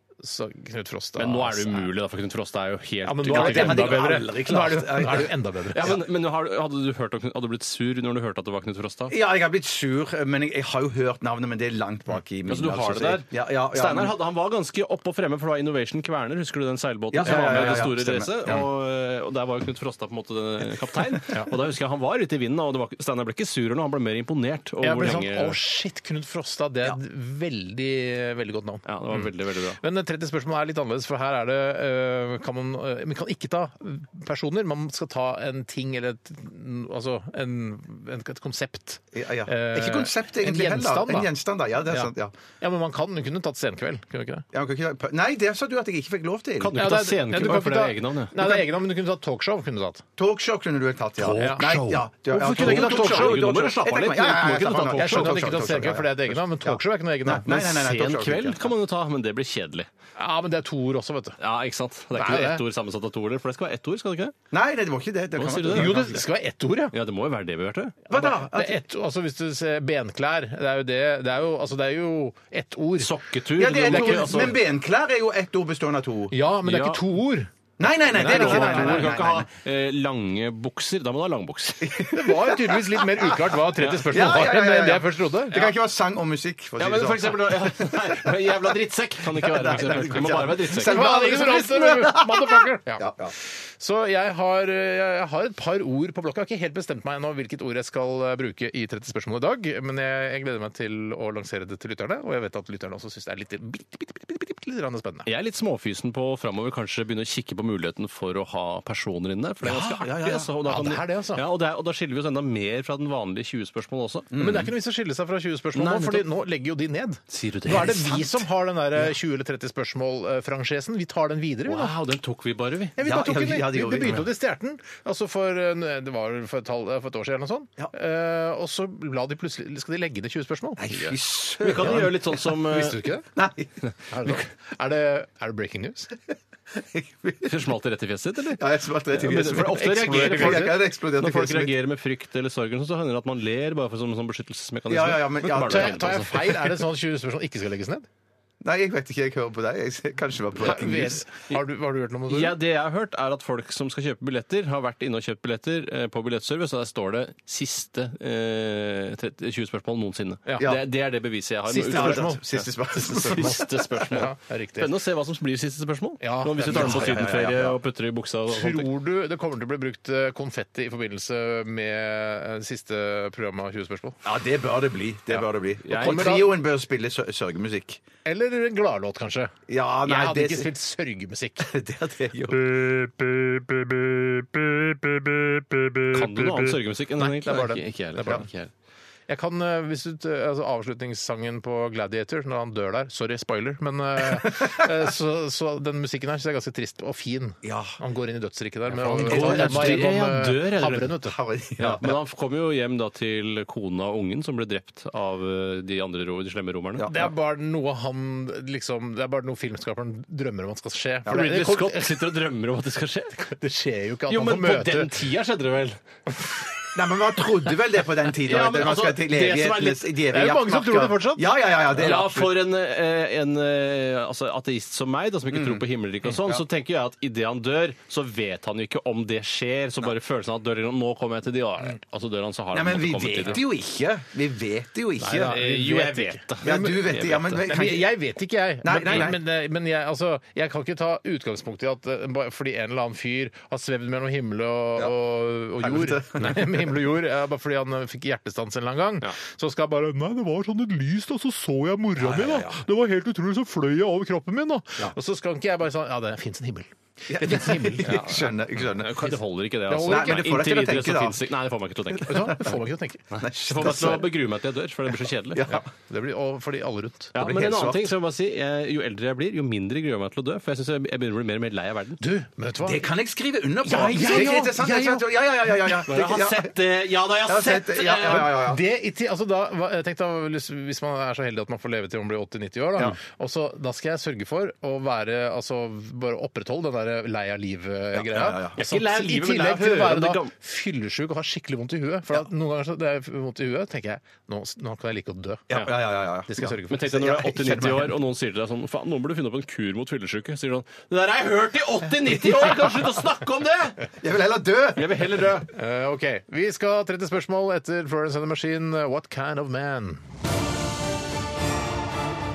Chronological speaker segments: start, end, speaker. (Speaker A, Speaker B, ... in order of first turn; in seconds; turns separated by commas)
Speaker A: 0.2-1.9, Speaker B: 1.2-4.2, Speaker A: 3.0-6.0, Speaker C: 3.3-5.3, Speaker B: 5.7-9.1, Speaker C: 9.1-14.1, Speaker B: 12.5-25.6, Speaker C: 17.1-18.6, Speaker A: 17.2-17.9, Speaker A: 24.8-41.3, Speaker B: 28.9-29.8, Speaker C: 39.1-42.3, Speaker A: 41.9-44.5, Speaker C: 44.5-46.8, Speaker B: 46.6-48.4, Speaker A: 46.7-50.0, Speaker C: 50.2-58.6, Speaker A: 51.2-53.5, Speaker B: 52.4-55.5, Speaker A: 54.9-57.8, Speaker B: 57.5-59.9, Speaker A: 60.1-61.4, Speaker B: 61.4-64.3, Speaker A: 62.1-62.6, Speaker C: 64.5-66.2, Speaker B: 65.4-66.2, Speaker A: 65.7-66.9, Speaker B: 66.9-68.0, Speaker A: 68.1-73.2, Speaker C: 68.1-68.8, Speaker B: 73.0-74.6, Speaker C: 73.5-76.3, Speaker A: 73.8-74.6, Speaker A: 76.3-77.5, Speaker B: 76.6-77.0, Speaker C: 77.8-79.5, Speaker A: 78.1-79.2, Speaker B: 78.1-82.1, Speaker C: 81.8-83.2, Speaker A: 82.1-85.7, Speaker B: 83.8-84.1, Speaker C: 84.1-88.3, Speaker B: 86.8-91.0, Speaker C: 89.3-93.3, Speaker A: 89.7-93.1, Speaker A: 93.7-105.3, Speaker B: 105.2-114.3, Speaker C: 109.6-110.5, Speaker A: 110.6-111.5, Speaker C: 114.3-114.7, Speaker A: 114.3-121.9, Speaker B: 115.7-116.2, Speaker B: 117.3-118.3, Speaker B: 121.7-123.0, Speaker A: 123.0-130.8, Speaker C: 123.0-124.2, Speaker C: 130.8-132.2, Speaker B: 130.9-133.0, Speaker A: 131.7-133.3, Speaker C: 133.3-133.7, Speaker A: 134.1-136.1, Speaker C: 136.7-137.5, Speaker B: 137.4-138.6, Speaker C: 138.6-141.7, Speaker B: 139.1-146.5, Speaker A: 139.4-140.8, Speaker C: 144.9-146.5, Speaker A: 145.5-148.1, Speaker C: 148.6-151.3, Speaker A: 150.6-152.6, Speaker B: 152.3-168.9, Speaker A: 160.5-160.8, Speaker A: 161.7-164.9, Speaker C: 161.8-163.7, Speaker A: 166.2-167.2, Speaker C: 166.6-167.8, Speaker A: 168.5-174.2, Speaker C: 174.2-178.0, Speaker B: 175.8-176.3, Speaker A: 175.9-176.5, Speaker A: 178.2-181.7, Speaker C: 179.7-180.7, Speaker C: 181.6-182.9, Speaker A: 182.7-186.6, Speaker B: 186.1-188.7, Speaker A: 187.2-188.4, Speaker A: 189.3-201.4, Speaker C: 197.6-198.0, Speaker B: 199.0-201.1, Speaker C: 199.0-200.1, Speaker C: 201.2-202.1, Speaker B: 201.8-207.1, Speaker C: 207.0-207.2, Speaker A: 207.0-212.2, Speaker B: 211.3-213.5, Speaker A: 213.4-215.1, Speaker B: 214.3-216.0, Speaker C: 216.9-222.6, Speaker B: 218.4-219.9, Speaker A: 219.4-221.5, Speaker B: 221.9-233.6, Speaker C: 225.5-225.8, Speaker C: 232.7-235.6, Speaker A: 235.2-258.2, Speaker B: 235.3-237.6, Speaker C: 236.6-238.1, Speaker C: 238.8-239.4, Speaker C: 245.8-247.0, Speaker C: 252.2-252.8, Speaker C: 257.3-259.3, Speaker B: 258.0-262.6, Speaker A: 259.9-260.7, Speaker C: 260.0-261.4, Speaker A: 262.3-263.2, Speaker C: 262.3-262.7, Speaker B: 263.3-265.7, Speaker C: 263.4-264.3, Speaker C: 265.5-265.9, Speaker A: 265.7-267.4, Speaker B: 267.3-272.2, Speaker C: 267.4-268.1, Speaker A: 272.2-273.0, Speaker C: 272.8-276.7, Speaker A: 273.8-276.0, Speaker B: 274.1-274.5, Speaker B: 276.1-278.5, Speaker C: 277.5-278.8, Speaker A: 278.3-295.8, Speaker C: 288.1-288.8, Speaker B: 288.8-290.5, Speaker C: 295.7-298.1, Speaker A: 296.5-297.1, Speaker B: 296.9-304.0, Speaker C: 304.2-305.3, Speaker B: 304.9-305.7, Speaker A: 305.7-310.2